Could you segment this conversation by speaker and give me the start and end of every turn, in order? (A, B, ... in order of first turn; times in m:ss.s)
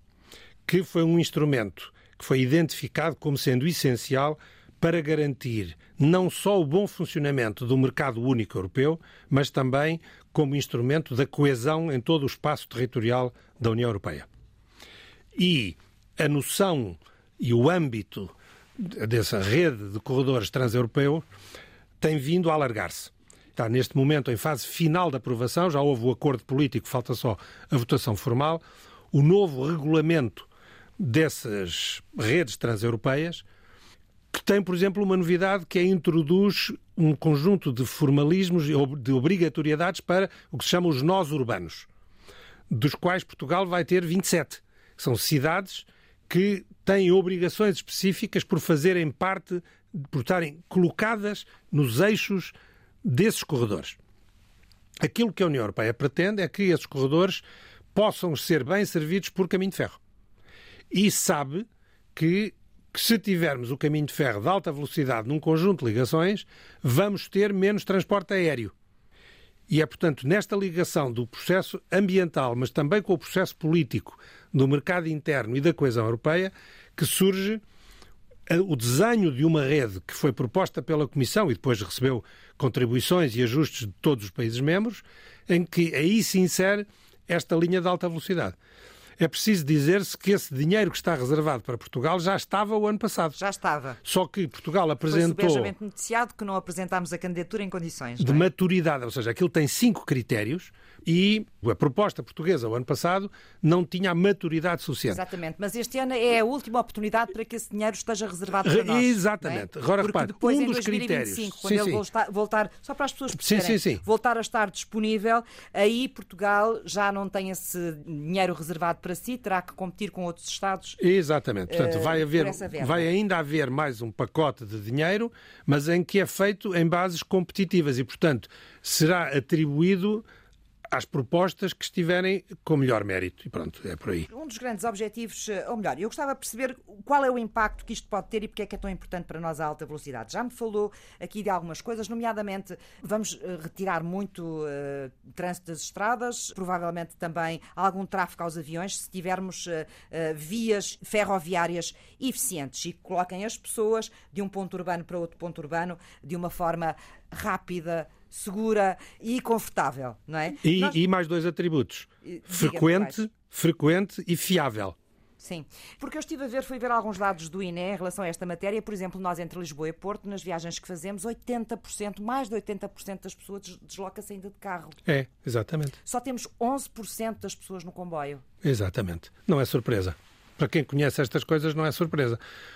0:00.7-0:14.3 A
0:15.4-0:21.2 A
0:22.0-0:30.5 A
0:31.0-0:33.4 A
0:34.3-0:41.9 A
0:42.7-0:54.0 A
0:55.0-0:57.4 A
0:57.9-1:00.0 A
1:00.9-1:08.7 A
1:09.7-1:17.6 A
1:18.5-1:28.6 A
1:29.2-1:33.4 A
1:33.4-1:34.0 B
1:34.0-1:35.7 A
1:35.1-1:38.5 B
1:38.2-1:45.2 A
1:45.1-2:01.0 B
1:48.6-1:52.0 A
1:53.4-1:54.0 A
2:01.0-2:10.2 A
2:01.7-2:03.1 B
2:10.9-2:14.3 A
2:14.3-2:41.0 B
2:40.6-2:45.0 A
2:42.2-2:43.2 B
2:45.4-2:55.0 B
2:55.1-2:56.0 A
2:56.0-2:58.4 B
2:58.6-3:02.4 A